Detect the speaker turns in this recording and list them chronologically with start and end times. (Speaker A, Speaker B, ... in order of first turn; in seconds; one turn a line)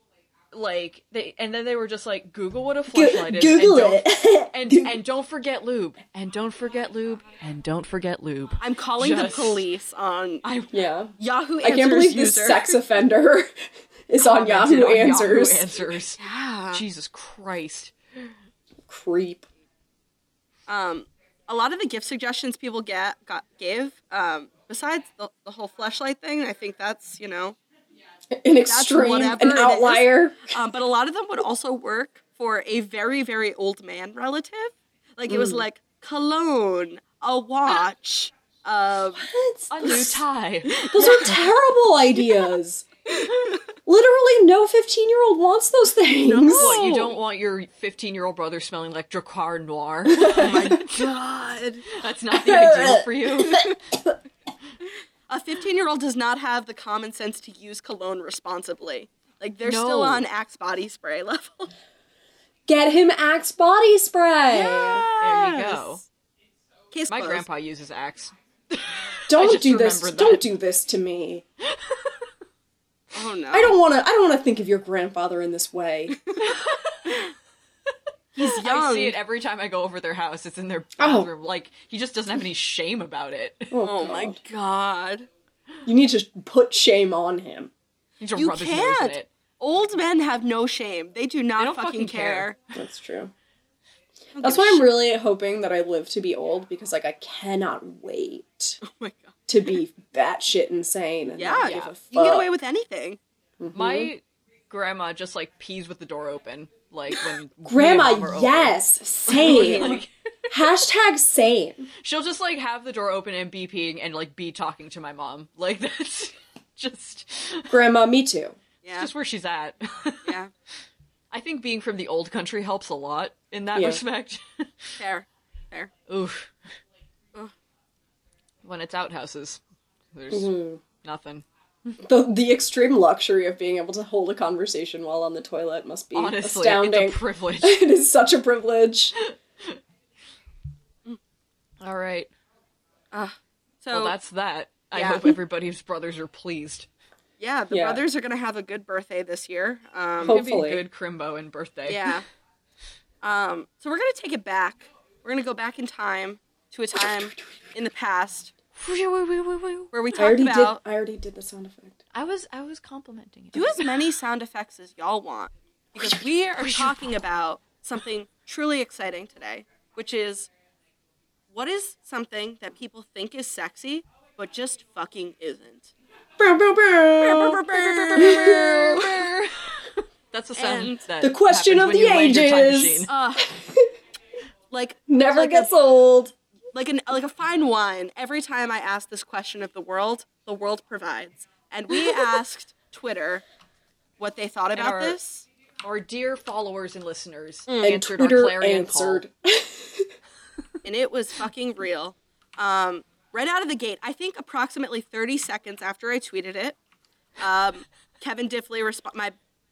Speaker A: 0.5-9.7
Speaker B: 2.9-5.0
Speaker C: 8.6-10.4
Speaker A: 10.4-10.8
Speaker B: 10.7-13.5
Speaker C: 11.2-12.8
Speaker B: 14.1-15.8
Speaker A: 14.2-16.2
Speaker C: 16.2-16.8
Speaker A: 16.7-18.3
Speaker B: 18.9-19.5
Speaker C: 20.7-27.6
Speaker B: 28.3-30.6
Speaker C: 28.7-39.3
Speaker B: 35.3-35.6
Speaker B: 39.2-42.9
Speaker A: 39.7-41.3
Speaker C: 41.0-41.4
Speaker B: 43.9-46.8
Speaker C: 46.2-47.1
Speaker A: 46.5-51.0
Speaker B: 50.1-50.8
Speaker C: 50.4-51.9
Speaker A: 51.9-53.7
Speaker B: 52.3-54.2
Speaker C: 55.3-61.7
Speaker A: 59.6-60.2
Speaker B: 62.7-65.1
Speaker C: 64.5-65.9
Speaker A: 65.2-66.0
Speaker C: 66.9-67.5
Speaker A: 67.1-70.5
Speaker B: 69.3-71.5
Speaker A: 71.6-72.3
Speaker C: 73.1-73.8
Speaker B: 73.5-76.2
Speaker A: 76.4-77.3
Speaker C: 78.4-79.2
Speaker A: 78.4-83.8
Speaker B: 81.0-81.3
Speaker B: 83.7-84.4
Speaker C: 83.8-85.3
Speaker B: 85.8-87.7
Speaker A: 88.2-89.3
Speaker C: 88.4-92.6
Speaker A: 91.6-92.5
Speaker B: 92.8-93.3
Speaker C: 94.3-94.9
Speaker B: 94.4-98.8
Speaker C: 98.8-99.4
Speaker B: 99.5-102.5
Speaker C: 101.4-103.2
Speaker A: 101.6-102.0
Speaker B: 103.6-104.1
Speaker A: 103.7-110.5
Speaker B: 107.7-111.9
Speaker C: 109.5-110.0
Speaker A: 112.0-117.8
Speaker B: 117.7-118.6
Speaker C: 118.8-119.1
Speaker A: 118.9-120.4
Speaker C: 120.3-120.5
Speaker A: 121.3-125.0
Speaker B: 123.8-124.0
Speaker C: 125.0-125.9
Speaker A: 126.1-126.5
Speaker A: 128.6-129.6
Speaker A: 130.1-132.0
Speaker B: 130.3-130.8
Speaker B: 132.0-139.1
Speaker A: 136.1-137.8
Speaker A: 139.2-139.8
Speaker A: 141.8-142.3
Speaker C: 143.1-144.2
Speaker A: 143.9-146.9
Speaker C: 144.9-145.4
Speaker C: 147.4-150.4
Speaker B: 147.7-148.0
Speaker A: 150.2-152.2
Speaker B: 150.2-150.8
Speaker C: 151.9-152.2
Speaker C: 153.2-158.5
Speaker A: 158.8-159.9
Speaker C: 159.9-160.8
Speaker B: 160.2-162.0
Speaker A: 162.1-164.0
Speaker C: 163.5-170.5
Speaker A: 166.6-167.1
Speaker C: 171.5-175.9
Speaker B: 176.4-177.6
Speaker C: 177.2-179.1
Speaker A: 177.7-183.1
Speaker B: 178.2-179.0
Speaker C: 180.6-181.1
Speaker B: 181.2-183.9
Speaker C: 183.1-183.5
Speaker C: 184.7-185.7
Speaker B: 185.1-186.3
Speaker C: 186.7-193.4
Speaker C: 194.2-195.5
Speaker A: 194.8-195.2
Speaker A: 195.8-199.2
Speaker C: 197.7-198.0
Speaker B: 197.8-200.1
Speaker C: 200.8-206.8
Speaker C: 207.4-209.3